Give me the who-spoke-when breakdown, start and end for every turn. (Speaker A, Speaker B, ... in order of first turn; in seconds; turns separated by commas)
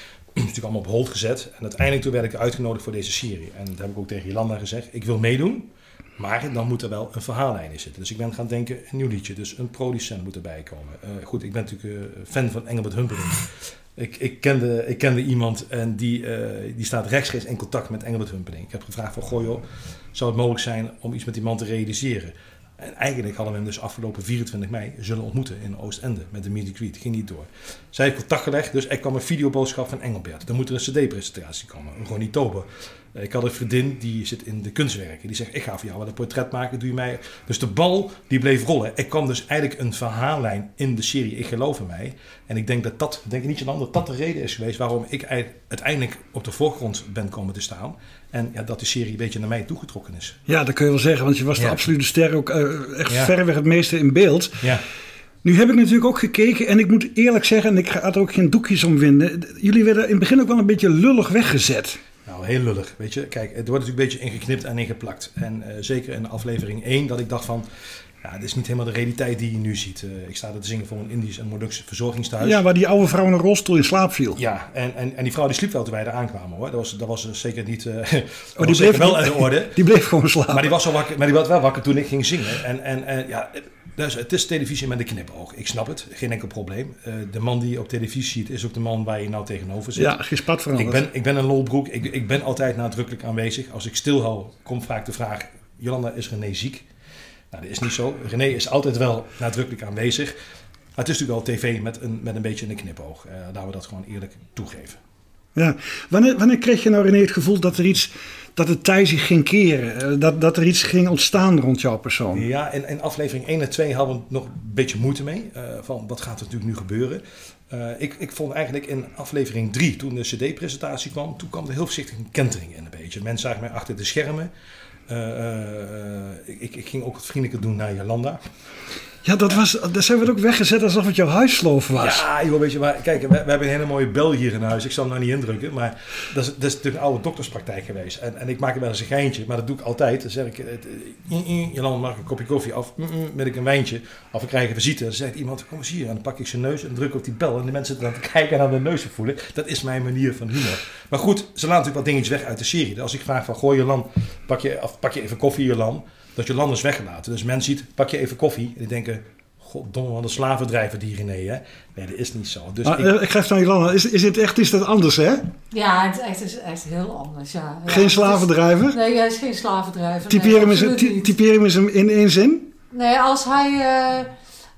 Speaker A: 0.3-50.4, Speaker B: 50.5-54.7, Speaker A: 53.1-53.3, Speaker B: 55.4-62.0, Speaker A: 62.3-67.7, Speaker A: 68.2-72.6, Speaker B: 72.4-74.4, Speaker A: 74.4-79.8, Speaker B: 78.6-80.8, Speaker A: 80.5-90.2, Speaker B: 90.0-91.0, Speaker A: 90.7-96.9, Speaker A: 97.5-100.3, Speaker A: 101.0-105.0, Speaker B: 105.5-112.5, Speaker A: 112.3-124.5, Speaker A: 125.1-128.4, Speaker B: 129.2-132.2, Speaker A: 131.9-163.1, Speaker B: 162.8-165.5, Speaker C: 165.7-171.3, Speaker B: 167.9-169.0, Speaker B: 170.3-172.7, Speaker C: 172.9-174.3